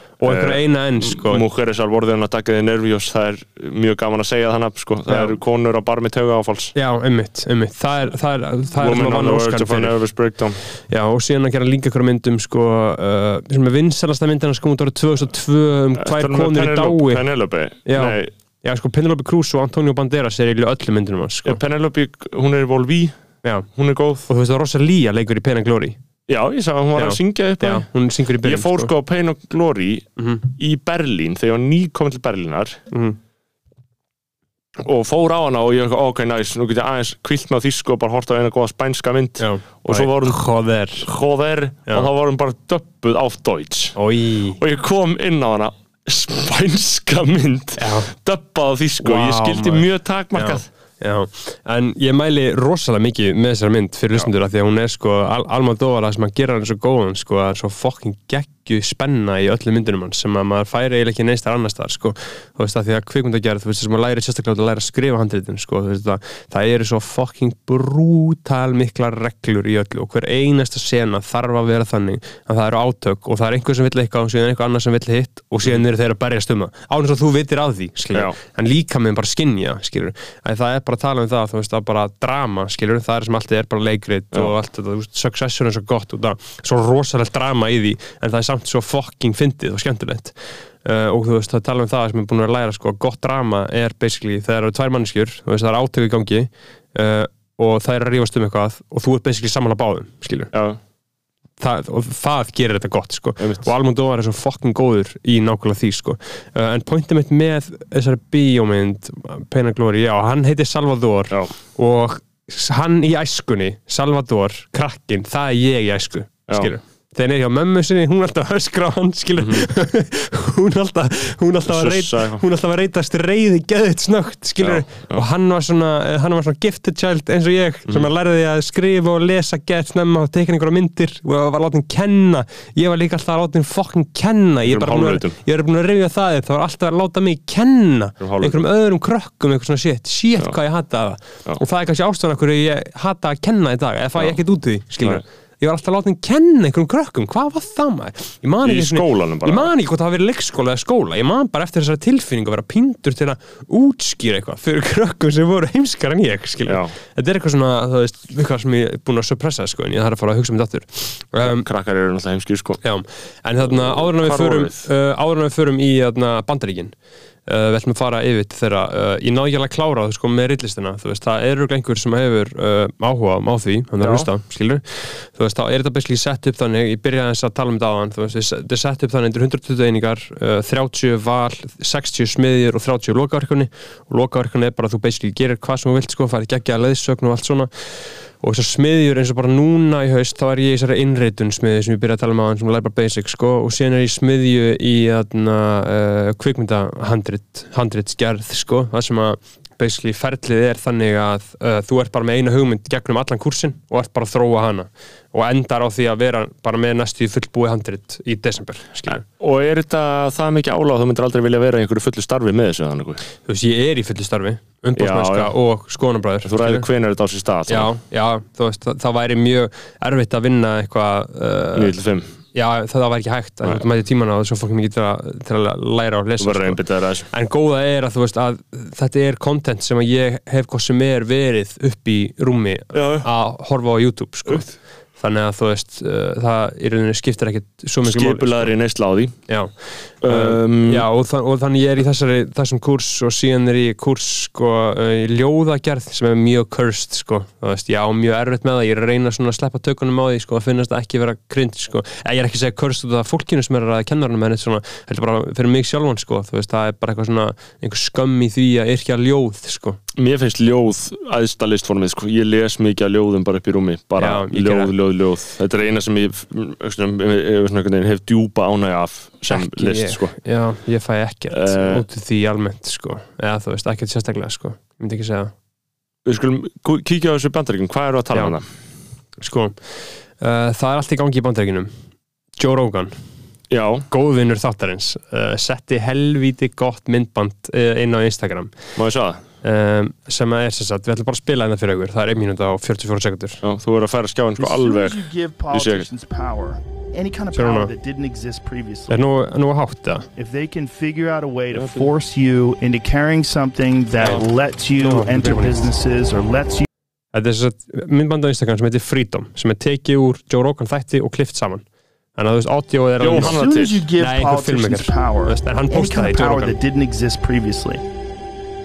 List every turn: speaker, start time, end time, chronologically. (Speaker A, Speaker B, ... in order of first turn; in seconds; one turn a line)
Speaker A: 0.2-1.4
Speaker B: 0.2-6.8
Speaker A: 6.8-10.0
Speaker B: 8.8-10.6
Speaker A: 10.9-17.2
Speaker B: 16.0-18.3
Speaker A: 17.9-21.6
Speaker B: 21.4-23.1
Speaker B: 23.7-24.3
Speaker A: 24.3-26.0
Speaker B: 26.3-27.9
Speaker A: 27.0-28.9
Speaker B: 28.4-32.8
Speaker A: 30.2-30.4
Speaker A: 32.9-33.2
Speaker B: 34.8-40.4
Speaker A: 39.4-41.1
Speaker B: 41.0-44.0
Speaker A: 44.0-44.6
Speaker B: 44.6-50.7
Speaker A: 47.8-48.1
Speaker A: 49.0-100.5
Speaker B: 100.5-100.8
Speaker A: 101.6-161.7
Speaker B: 103.4-103.7
Speaker B: 116.5-116.7
Speaker B: 119.4-119.7
Speaker B: 121.7-122.4
Speaker B: 124.6-125.2
Speaker B: 134.6-135.4
Speaker B: 138.2-138.6
Speaker B: 148.6-149.7
Speaker B: 156.7-156.9
Speaker B: 161.4-162.8
Speaker A: 162.8-166.9
Speaker B: 163.6-164.9
Speaker A: 167.5-187.7
Speaker B: 174.0-174.3
Speaker A: 188.4-209.2
Speaker B: 209.1-213.2
Speaker A: 213.5-216.9
Speaker B: 215.0-215.5
Speaker B: 216.4-217.9
Speaker A: 217.7-221.9
Speaker B: 221.8-222.3
Speaker A: 222.5-238.7
Speaker B: 226.4-227.3
Speaker B: 232.9-233.3
Speaker B: 238.0-239.4
Speaker A: 239.5-239.7
Speaker B: 240.2-241.1
Speaker A: 240.2-260.0
Speaker B: 260.1-270.4
Speaker A: 264.2-264.9
Speaker A: 269.5-275.5
Speaker B: 271.5-272.1
Speaker B: 276.3-278.6
Speaker A: 279.4-279.8
Speaker A: 280.4-281.9
Speaker A: 282.6-283.1
Speaker B: 283.7-284.1
Speaker A: 284.1-288.8
Speaker B: 289.0-289.4
Speaker A: 289.6-293.6
Speaker B: 293.6-295.2
Speaker C: 294.6-299.2
Speaker B: 295.7-296.1
Speaker A: 297.5-297.9
Speaker A: 299.1-300.3
Speaker C: 300.4-306.9
Speaker B: 301.7-302.1
Speaker A: 305.0-305.8
Speaker A: 307.3-311.9
Speaker A: 312.4-313.6
Speaker B: 313.2-314.1
Speaker C: 313.3-318.0
Speaker A: 314.2-316.8